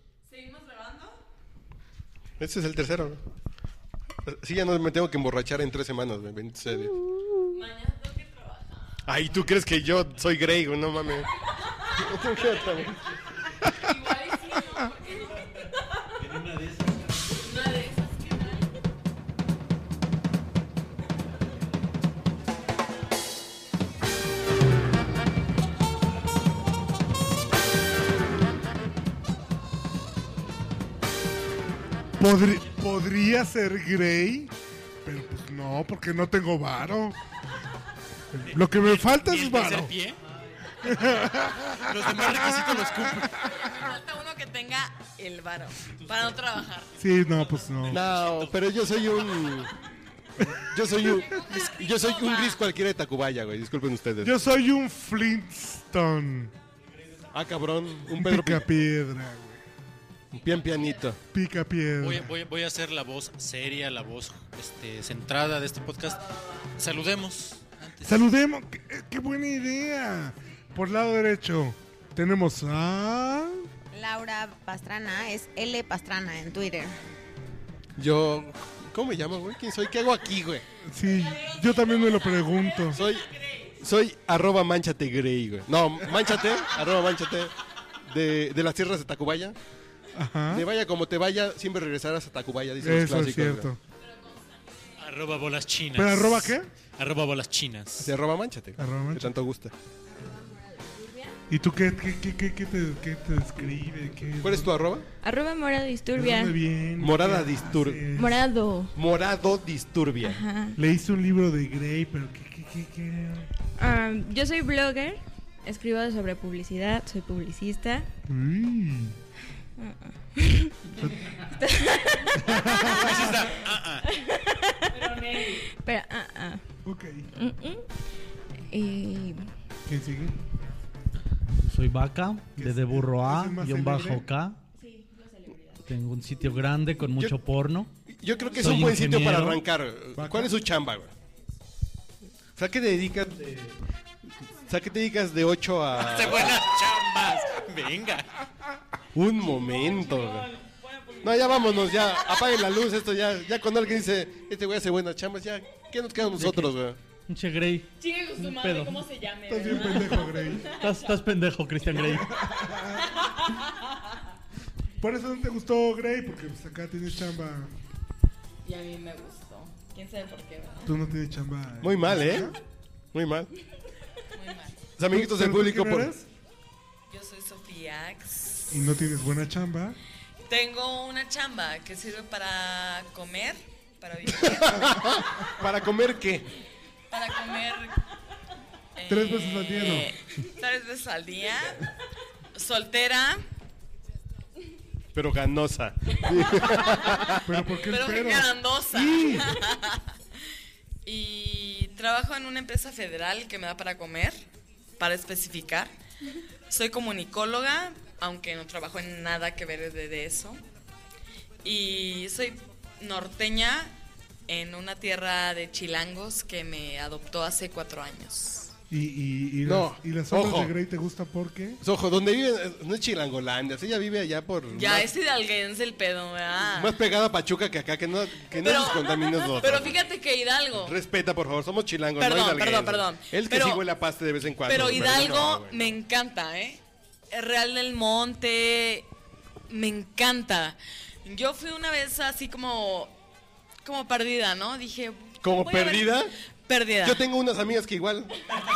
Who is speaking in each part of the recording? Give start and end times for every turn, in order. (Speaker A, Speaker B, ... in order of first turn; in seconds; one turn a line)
Speaker A: 0.3-1.2
Speaker B: 2.4-3.2
Speaker B: 4.2-7.0
Speaker A: 7.4-9.0
Speaker B: 9.1-11.3
Speaker B: 11.9-13.0
Speaker A: 13.7-16.1
Speaker C: 16.2-17.4
Speaker A: 17.4-18.7
Speaker D: 32.2-34.5
Speaker D: 35.0-37.1
Speaker D: 38.3-39.9
Speaker C: 38.5-43.4
Speaker D: 40.8-43.4
Speaker A: 43.3-46.9
Speaker C: 45.9-49.6
Speaker D: 47.0-48.0
Speaker B: 47.9-49.7
Speaker B: 50.6-54.3
Speaker A: 50.9-52.6
Speaker D: 54.2-56.5
Speaker B: 57.3-58.6
Speaker D: 58.1-59.6
Speaker B: 60.3-61.2
Speaker D: 61.3-62.3
Speaker C: 62.0-66.2
Speaker A: 66.2-66.6
Speaker C: 66.8-68.3
Speaker D: 68.0-73.7
Speaker E: 73.9-77.0
Speaker B: 78.0-80.7
Speaker D: 80.8-83.0
Speaker A: 81.1-83.8
Speaker B: 82.9-83.3
Speaker B: 83.8-87.5
Speaker B: 88.0-89.5
Speaker D: 90.1-90.7
Speaker B: 90.5-93.7
Speaker D: 92.8-93.8
Speaker A: 94.0-95.1
Speaker C: 95.0-98.1
Speaker D: 96.0-96.7
Speaker B: 98.0-99.7
Speaker D: 98.8-99.3
Speaker E: 100.1-101.4
Speaker D: 101.5-104.7
Speaker B: 104.4-105.0
Speaker F: 105.2-106.6
Speaker D: 106.1-108.4
Speaker B: 107.0-108.1
Speaker F: 108.1-108.9
Speaker B: 108.9-110.4
Speaker F: 110.2-110.8
Speaker D: 110.8-113.5
Speaker F: 113.8-118.1
Speaker D: 118.3-119.2
Speaker F: 119.8-120.7
Speaker D: 121.0-121.4
Speaker F: 121.6-123.0
Speaker D: 122.4-123.5
Speaker C: 122.9-124.0
Speaker F: 124.1-126.6
Speaker A: 124.9-125.7
Speaker D: 126.8-127.3
Speaker F: 127.3-127.8
Speaker F: 128.7-129.5
Speaker D: 129.8-130.4
Speaker G: 131.6-134.6
Speaker D: 132.6-134.3
Speaker F: 134.8-135.8
Speaker G: 135.8-137.9
Speaker B: 138.1-141.1
Speaker G: 138.6-139.6
Speaker D: 140.2-140.5
Speaker B: 142.6-143.7
Speaker B: 144.7-146.6
Speaker C: 145.9-148.5
Speaker B: 149.1-150.5
Speaker A: 149.7-152.0
Speaker B: 151.2-157.0
Speaker G: 156.4-156.7
Speaker G: 157.3-159.0
Speaker A: 158.0-161.2
Speaker D: 159.5-160.8
Speaker G: 160.6-162.4
Speaker D: 162.0-163.2
Speaker D: 165.0-167.7
Speaker A: 168.6-170.9
Speaker D: 170.8-172.6
Speaker B: 171.8-172.5
Speaker B: 173.1-173.5
Speaker A: 174.3-174.8
Speaker B: 175.0-176.1
Speaker D: 175.1-176.2
Speaker A: 177.1-178.9
Speaker D: 178.7-180.0
Speaker A: 180.4-185.0
Speaker B: 184.6-186.5
Speaker A: 187.1-188.0
Speaker A: 188.9-191.9
Speaker D: 189.1-190.1
Speaker A: 192.5-193.4
Speaker B: 195.1-197.4
Speaker D: 197.4-199.5
Speaker A: 197.9-200.1
Speaker A: 201.0-204.4
Speaker A: 205.0-205.9
Speaker A: 206.7-210.6
Speaker A: 211.6-213.9
Speaker A: 214.5-218.7
Speaker D: 218.9-221.8
Speaker B: 219.6-220.8
Speaker B: 221.8-225.1
Speaker A: 224.7-226.9
Speaker B: 226.7-230.0
Speaker A: 228.6-230.9
Speaker B: 230.8-236.0
Speaker A: 232.2-233.8
Speaker A: 234.7-239.1
Speaker A: 239.7-243.1
Speaker A: 243.8-247.2
Speaker B: 245.4-246.3
Speaker B: 247.0-248.5